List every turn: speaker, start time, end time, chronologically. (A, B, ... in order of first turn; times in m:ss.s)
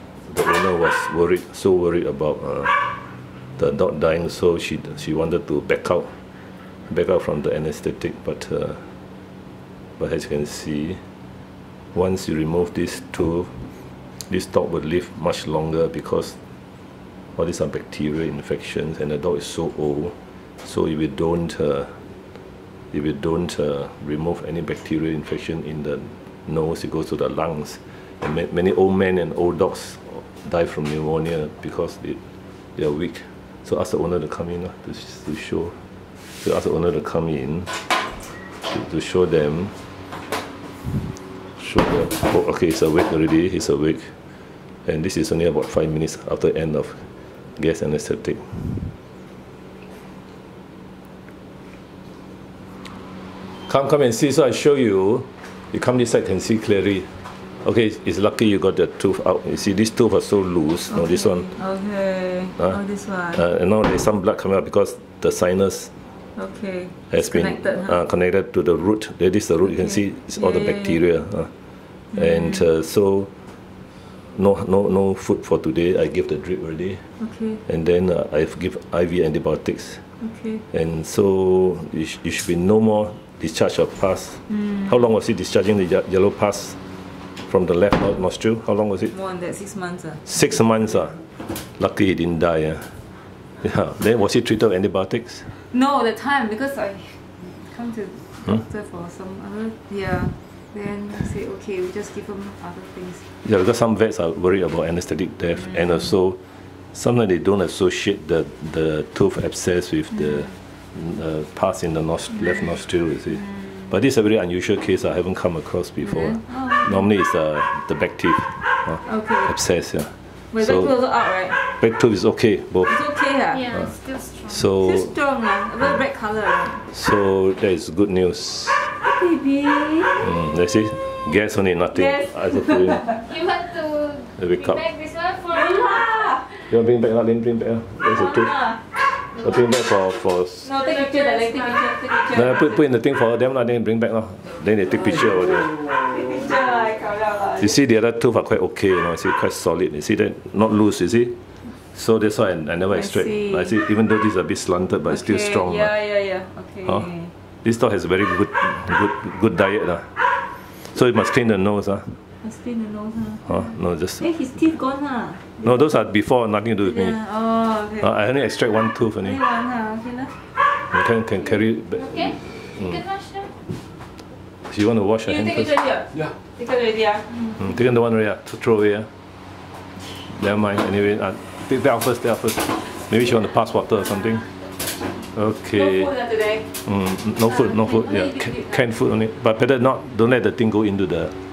0:00.2-0:02.8 A
0:03.6-0:06.2 A
0:06.9-0:08.9 A
0:10.0-0:11.0 A
0:11.9-0:13.5 A
0:14.2-0:16.4 A
0:17.4-0:22.0 A
0:22.9-0:32.2 A
0:32.8-0:35.8 A
0:36.4-0:37.8 A
0:38.6-0:39.8 A
0:41.5-0:44.2 A
0:44.9-0:48.9 A
0:53.7-0:57.1 A
0:57.6-1:01.5 A
1:00.9-1:03.4 B
1:03.3-1:05.9 A
1:06.4-1:08.0 B
1:07.1-1:11.5 A
1:09.7-1:11.0 B
1:12.1-1:13.3 A
1:12.1-1:12.6 B
1:14.3-1:17.0 A
1:17.2-1:17.6 B
1:17.7-1:20.0 A
1:20.2-1:20.6 B
1:20.7-1:26.8 A
1:27.5-1:29.1 A
1:29.1-1:30.2 B
1:30.2-1:33.0 A
1:33.6-1:35.5 A
1:35.7-1:43.2 B
1:43.4-1:46.4 A
1:46.9-2:00.9 A
1:56.0-1:57.1 B
1:59.0-1:59.5 B
2:00.5-2:01.6 B
2:01.6-2:03.0 A
2:02.9-2:03.8 B
2:03.5-2:04.7 C
2:04.5-2:05.1 A
2:04.8-2:06.8 B
2:06.9-2:08.9 A
2:09.0-2:10.4 B
2:10.2-2:13.2 A
2:11.9-2:13.3 B
2:13.2-2:16.4 C
2:14.4-2:14.8 A
2:15.5-2:16.7 B
2:16.7-2:20.7 A
2:18.1-2:18.8 B
2:20.6-2:22.9 B
2:20.8-2:21.9 C
2:22.3-2:26.0 A
2:25.9-2:27.8 B
2:27.6-2:31.4 A
2:31.9-2:35.9 A
2:32.9-2:33.7 B
2:35.1-2:37.3 B
2:37.6-2:40.2 A
2:40.8-2:42.2 A
2:42.4-2:45.7 B
2:43.5-2:44.3 A
2:45.6-2:47.2 A
2:46.8-2:48.1 B
2:48.0-2:49.4 A
2:49.2-2:50.3 B
2:50.9-2:53.0 A
2:51.9-2:53.5 C
2:54.7-2:55.9 A
2:55.2-2:57.6 B
2:57.6-2:59.1 A
3:00.3-3:04.5 A
3:05.3-3:06.1 A
3:05.7-3:06.7 B
3:06.8-3:11.4 A
3:07.6-3:08.8 B